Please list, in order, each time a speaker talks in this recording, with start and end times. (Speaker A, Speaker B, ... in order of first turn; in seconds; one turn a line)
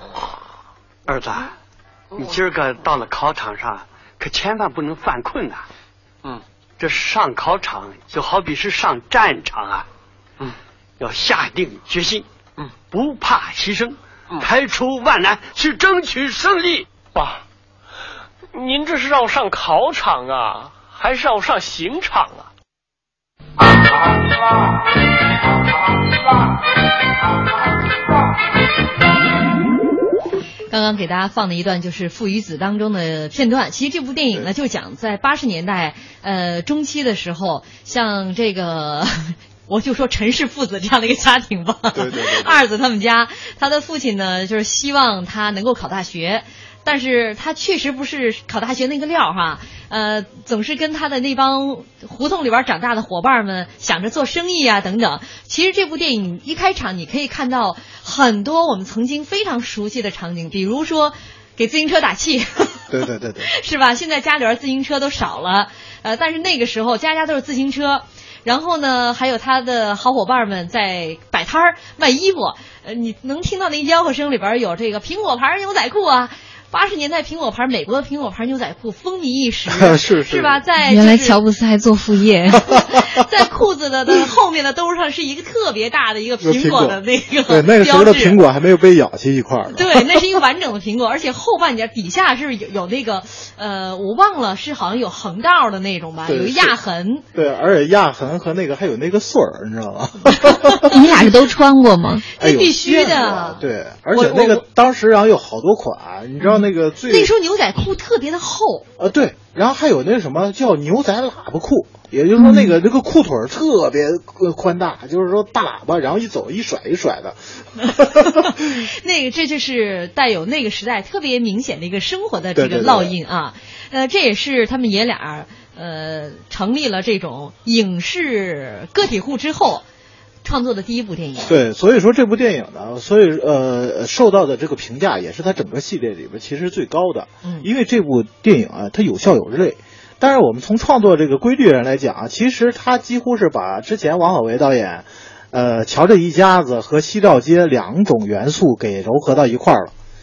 Speaker A: 1.1-1.5
Speaker A: 2.1-5.7
Speaker A: 6.8-9.8
Speaker A: 11.0-12.2
Speaker A: 12.9-16.9
Speaker B: 18.5-22.5
Speaker C: 30.7-62.9
Speaker D: 41.9-42.6
Speaker D: 62.9-63.5
Speaker C: 63.4-81.4
Speaker D: 79.7-80.6
Speaker E: 80.8-82.7
Speaker C: 82.7-88.4
Speaker D: 86.4-90.2
Speaker C: 89.7-97.2
Speaker D: 96.2-96.8
Speaker D: 97.3-101.3
Speaker E: 100.8-102.2
Speaker C: 102.3-103.6
Speaker D: 102.4-107.3
Speaker C: 104.1-104.6
Speaker C: 107.1-108.9
Speaker D: 109.0-118.7
Speaker C: 118.2-129.8
Speaker D: 122.5-123.1
Speaker C: 130.4-131.6
Speaker D: 131.4-149.9